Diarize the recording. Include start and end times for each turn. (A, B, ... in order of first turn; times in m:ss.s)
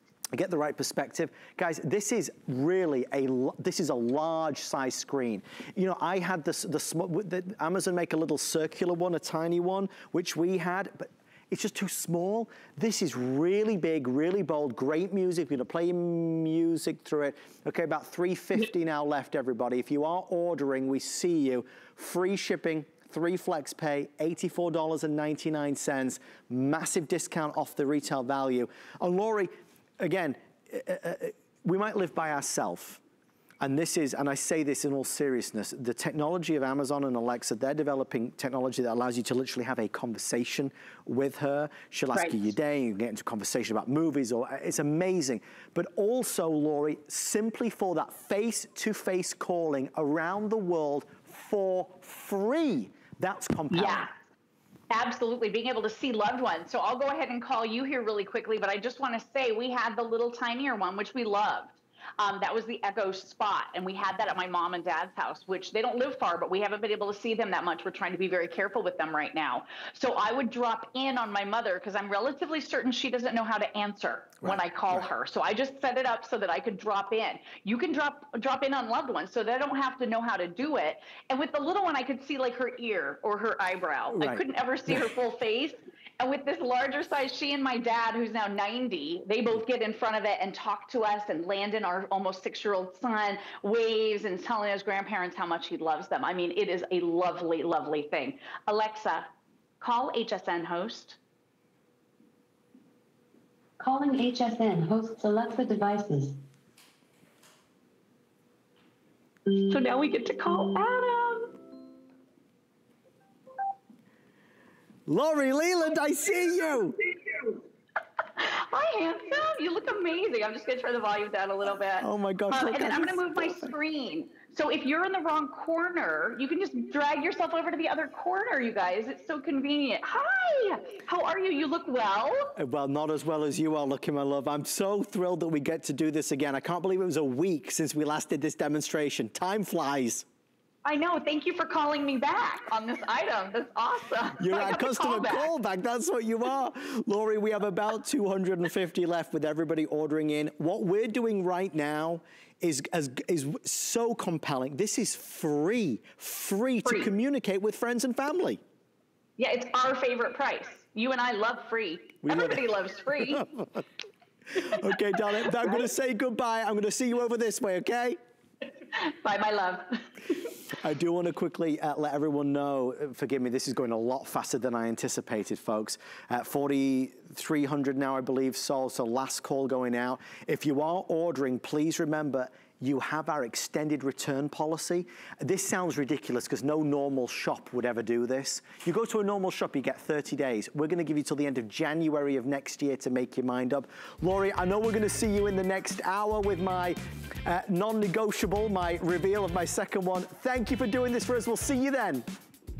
0:00.3-0:33.0 A
0:33.6-0:54.1 A
0:53.7-0:54.1 B
0:54.9-1:39.3 B
1:14.4-1:15.1 A
1:24.1-1:25.0 A
1:39.8-1:41.2 B
1:43.8-1:46.4 C
1:49.7-1:51.5 B
1:55.1-1:57.0 A
1:58.4-2:12.5 B
2:02.0-2:03.7 A
2:12.6-2:20.2 A
2:20.8-2:25.5 B
2:24.4-2:38.6 A
2:39.4-2:43.4 B
2:42.2-2:42.6 A
2:44.6-2:48.2 A
2:49.2-2:49.9 B
2:50.8-3:22.2 A